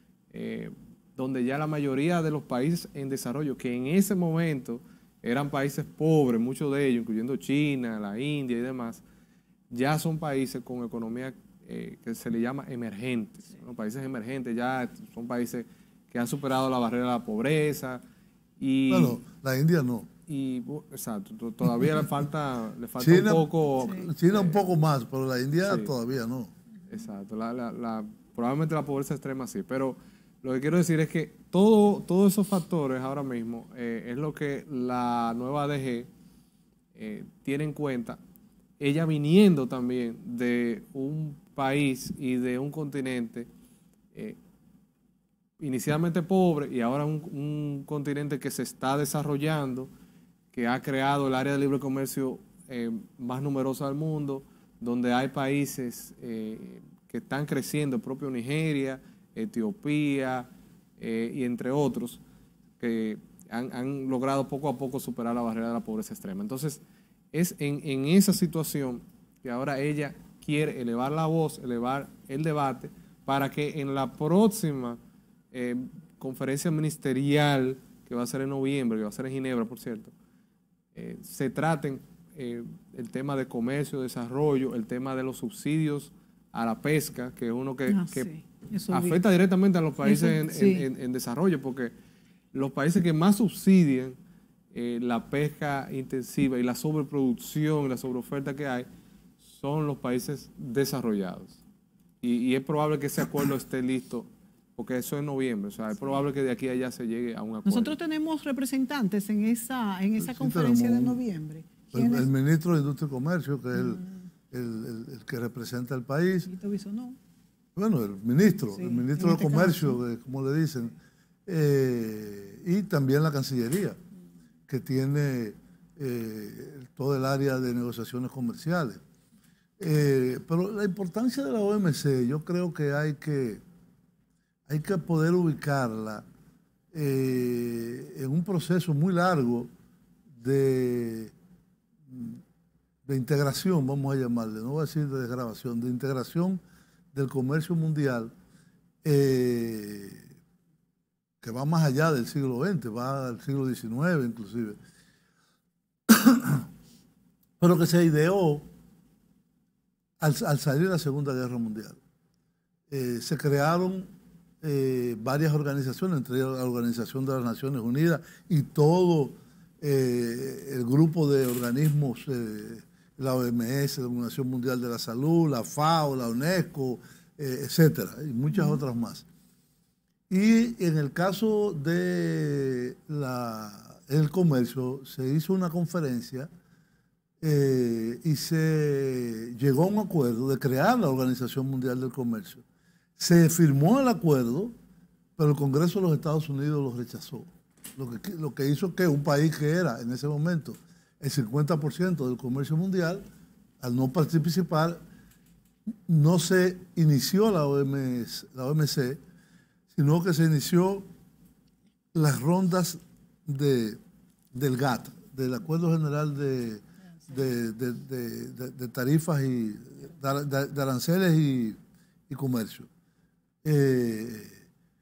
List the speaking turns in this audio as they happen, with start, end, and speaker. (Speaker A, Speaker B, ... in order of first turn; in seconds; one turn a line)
Speaker A: 0.3-9.0
Speaker A: 9.7-18.0
Speaker A: 18.6-19.2
Speaker B: 18.9-20.1
Speaker A: 20.3-24.7
Speaker B: 23.0-26.5
Speaker A: 25.6-25.9
Speaker A: 26.9-36.1
Speaker A: 37.0-38.2
Speaker A: 38.8-43.5
Speaker A: 45.6-49.9
Speaker A: 50.5-62.2
Speaker A: 62.8-66.8
Speaker A: 67.3-75.0
Speaker A: 75.5-80.1
Speaker A: 80.9-88.3
Speaker C: 87.9-89.2
Speaker A: 88.9-92.0
Speaker C: 90.0-90.9
Speaker A: 92.5-94.2
Speaker A: 94.7-98.9
Speaker A: 99.4-101.6
Speaker A: 102.2-108.0
Speaker C: 107.7-112.3
Speaker B: 110.2-111.2
Speaker B: 111.9-116.5
Speaker C: 113.8-114.1
Speaker C: 116.5-117.2
Speaker B: 117.8-121.0
Speaker C: 118.8-120.0
Speaker B: 121.5-124.0
Speaker B: 124.7-129.0
Speaker B: 129.8-133.6
Speaker B: 134.7-136.2
Speaker B: 136.9-139.7
Speaker B: 140.4-141.3
Speaker B: 142.1-142.4
Speaker B: 143.1-146.6
Speaker B: 147.1-148.3
Speaker B: 149.0-150.2
Speaker B: 151.4-154.8
Speaker B: 156.1-156.7
Speaker B: 157.6-158.7
Speaker B: 160.2-162.0
Speaker B: 162.9-164.1
Speaker B: 164.6-179.2
Speaker C: 178.5-178.8
Speaker B: 180.3-186.5
Speaker B: 187.4-192.6
Speaker B: 193.2-194.7
Speaker B: 195.4-203.2
Speaker B: 203.8-205.0
Speaker B: 206.1-209.2
Speaker B: 209.9-211.1
Speaker B: 212.1-214.0
Speaker B: 214.5-221.8
Speaker B: 222.3-222.9
Speaker B: 223.6-224.6